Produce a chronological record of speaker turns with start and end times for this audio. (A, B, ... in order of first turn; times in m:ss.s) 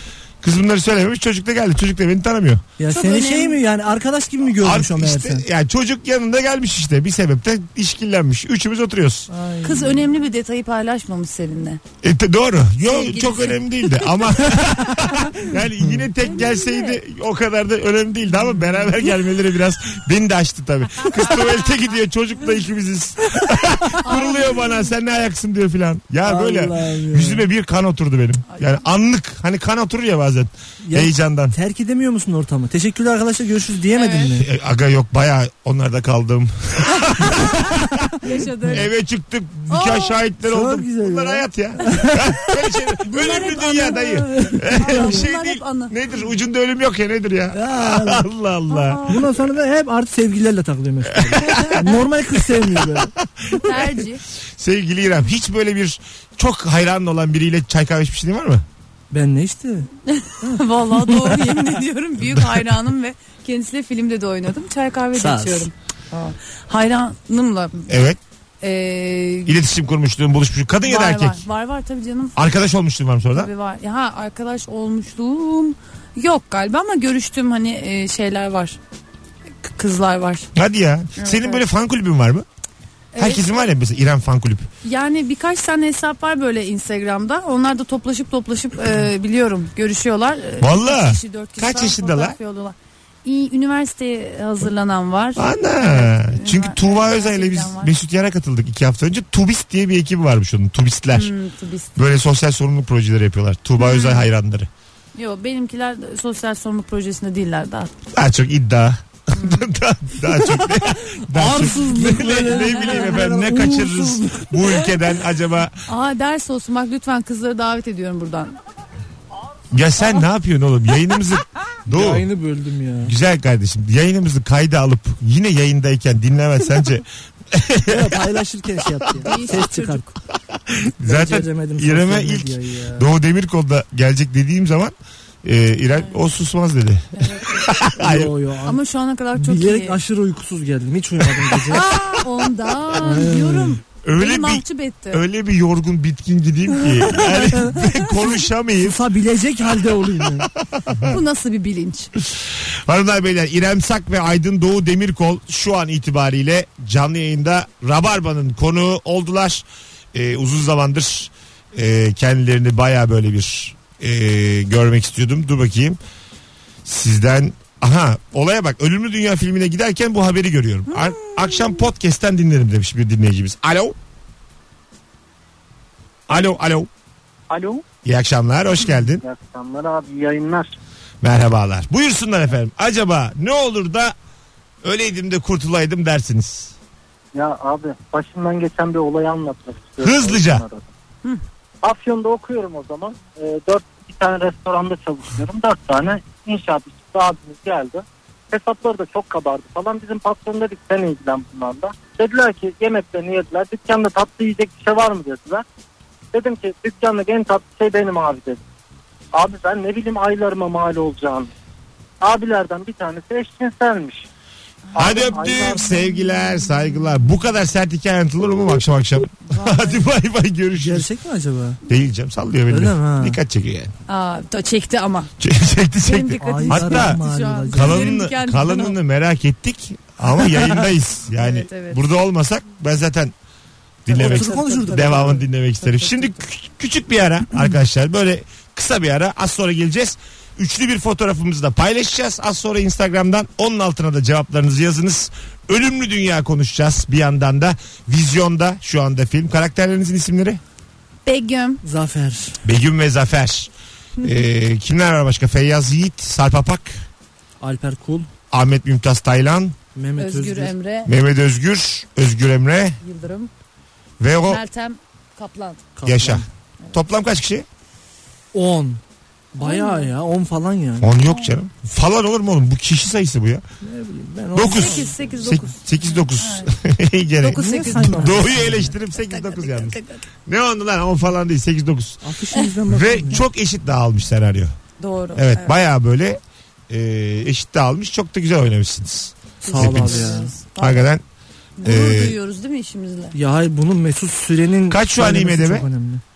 0:00.4-0:02.6 A
0:02.8-0:05.4 B
0:02.9-0:03.6 C
0:04.6-0:09.3 A
0:09.3-0:10.0 B
0:09.6-0:11.8 C
0:12.0-0:31.6 A
0:12.8-0:14.1 C
0:16.2-0:17.0 C
0:24.0-0:24.9 C
0:26.2-0:27.4 B
0:30.8-0:34.5 B
0:33.9-0:34.3 C
0:34.4-0:38.0 A
0:37.2-0:37.6 C
0:38.2-0:38.9 C
0:38.7-0:49.1 A
0:39.7-0:40.2 C
0:40.4-0:42.2 B
0:43.0-0:46.0 C
0:44.4-0:45.2 B
0:47.5-0:48.2 B
0:48.7-0:49.2 C
0:49.0-0:53.1 B
0:51.1-0:51.8 A
0:51.4-0:51.7 C
0:52.5-0:54.0 A
0:53.6-0:54.2 C
0:54.6-0:58.6 A
0:59.1-0:59.9 B
1:00.1-1:07.9 C
1:00.4-1:01.7 B
1:05.1-1:05.7 B
1:07.9-1:08.2 A
1:08.6-1:09.6 C
1:09.4-1:11.4 A
1:10.8-1:12.4 C
1:12.4-1:13.5 A
1:13.3-1:18.8 C
1:19.6-1:20.5 C
1:20.5-1:22.4 A
1:21.2-1:21.6 C
1:23.1-1:23.6 C
1:23.2-1:24.7 A
1:24.8-1:37.9 C
1:30.6-1:32.4 A
1:35.4-1:41.3 A
1:41.1-1:42.0 C
1:42.0-1:44.7 A
1:43.8-1:44.3 C
1:45.1-1:47.9 C
1:48.1-1:55.8 A
1:49.3-1:49.7 C
1:51.3-1:54.8 B
1:51.6-1:53.2 C
1:55.8-1:58.6 C
1:59.7-2:02.2 A
2:01.9-2:03.1 B
2:03.0-2:08.3 A
2:07.9-2:10.0 B
2:09.2-2:10.2 C
2:10.7-2:18.3 A
2:11.0-2:13.1 B
2:15.9-2:16.2 C
2:17.2-2:17.7 C
2:18.0-2:18.8 B
2:18.6-2:20.0 C
2:19.3-2:21.9 B
2:21.6-2:25.2 C
2:22.9-2:23.8 B
2:24.0-2:29.0 A
2:27.2-2:27.8 B
2:28.8-2:30.5 B
2:30.0-2:31.1 A
2:31.0-2:32.1 C
2:32.2-2:46.0 A
2:46.8-2:54.0 A
2:50.9-2:51.8 C
2:56.3-2:56.9 A
2:57.5-2:57.8 D
2:58.0-2:59.2 A
2:59.2-3:00.7 D
3:01.2-3:04.1 A
3:04.8-3:06.7 A
3:07.3-3:10.9 D
3:10.0-3:10.6 A
3:11.8-3:25.6 D
3:26.3-3:28.6 D
3:29.3-3:31.5 D
3:32.2-3:34.2 D
3:34.9-3:35.7 C
3:34.9-3:35.9 D
3:35.0-3:41.1 A
3:39.4-3:40.1 C
3:40.8-3:41.8 B
3:41.9-3:43.9 A
3:42.7-3:43.4 B
3:44.1-3:45.3 C
3:45.4-3:47.2 A
3:46.0-3:49.0 C
3:46.4-3:48.2 B
3:47.7-3:53.3 A
3:51.4-3:52.0 C
3:54.0-4:10.6 A
3:54.1-3:55.4 B
3:54.1-3:56.4 C
4:11.2-4:11.8 C
4:11.8-4:12.6 B
4:12.6-4:17.0 A
4:17.6-4:18.3 B
4:18.5-4:19.8 A
4:19.9-4:20.7 B
4:20.2-4:21.1 C
4:21.0-4:23.0 A
4:23.0-4:23.5 C
4:24.2-4:24.6 A
4:24.4-4:25.8 C
4:26.0-4:26.5 B
4:26.0-4:27.6 A
4:28.5-4:29.0 B
4:29.5-4:31.1 B
4:29.6-4:30.1 C
4:31.0-4:33.6 A
4:31.2-4:31.5 C
4:33.8-4:35.6 B
4:34.5-4:42.2 A
4:34.6-4:36.7 C
4:37.4-4:40.2 C
4:37.5-4:38.9 B
4:42.2-4:43.4 B
4:42.8-4:44.7 A
4:45.0-4:45.8 C
4:45.3-4:51.2 A
4:49.6-4:51.1 C
4:49.6-4:50.6 B
4:51.8-4:53.4 C
4:51.8-4:52.4 A
4:53.3-4:56.2 B
4:54.9-4:55.9 A